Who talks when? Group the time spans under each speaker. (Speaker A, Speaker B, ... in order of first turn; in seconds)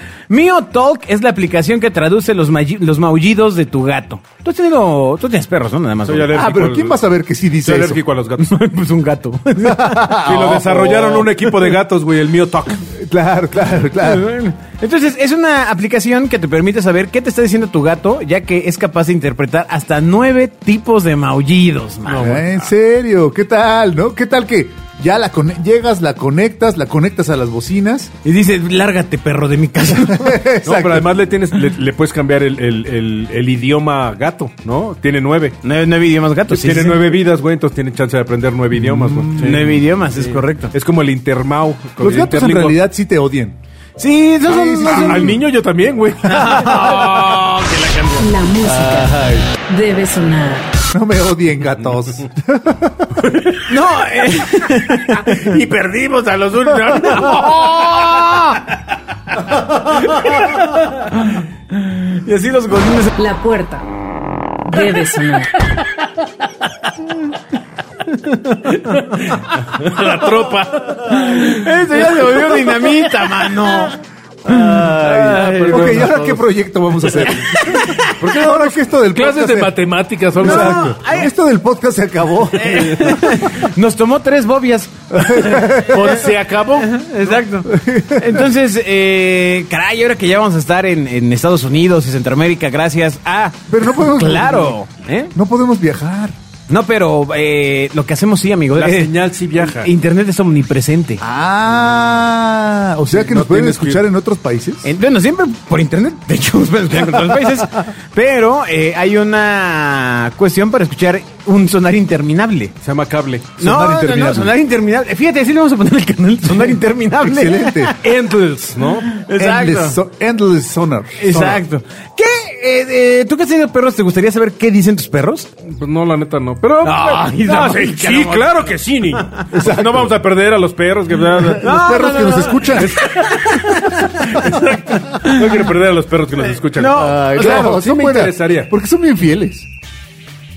Speaker A: 0.3-6.4, 8.4-10.4, 14.0-22.4, 28.2-30.4, 35.6-37.1, 39.4-40.7, 44.0-45.4, 46.2-48.2, 53.6-55.6, 56.9-58.7, 59.6-63.1, 68.0-69.2, 71.1-76.3, 77.2-78.2, 80.4-81.3, 82.5-86.2, 86.8-95.3, 96.7-101.2, 104.8-112.7, 113.6-118.0, 118.9-120.0, 121.2-125.5, 126.8-128.7, 131.6-135.6, 136.6-137.7
Speaker B: 6.0-7.0, 7.6-8.5, 10.2-12.8, 22.1-22.5, 30.6-35.6, 36.5-42.8, 44.8-48.2, 53.2-53.6, 55.0-58.6, 68.8-73.0, 75.2-76.4, 78.0-80.9, 85.8-87.4, 98.7-99.9, 103.1-104.0, 112.8-113.6, 118.0-119.1, 121.3-121.6, 125.7-131.7, 132.8-138.7
Speaker C: 6.3-8.0, 9.6-11.3, 12.9-14.3, 22.1-28.1, 30.0-31.1, 38.7-39.7, 42.0-43.6, 44.4-45.4, 48.6-49.5, 50.9-53.2, 74.4-79.7, 80.4-83.3, 85.1-86.2, 87.7-88.5, 93.7-94.8, 95.3-96.3, 101.2-104.9, 113.6-114.5, 117.2-117.9, 119.3-121.4, 129.5-130.1, 131.3-132.9, 136.9-139.7
Speaker D: 48.2-50.7, 63.2-63.9, 64.6-65.5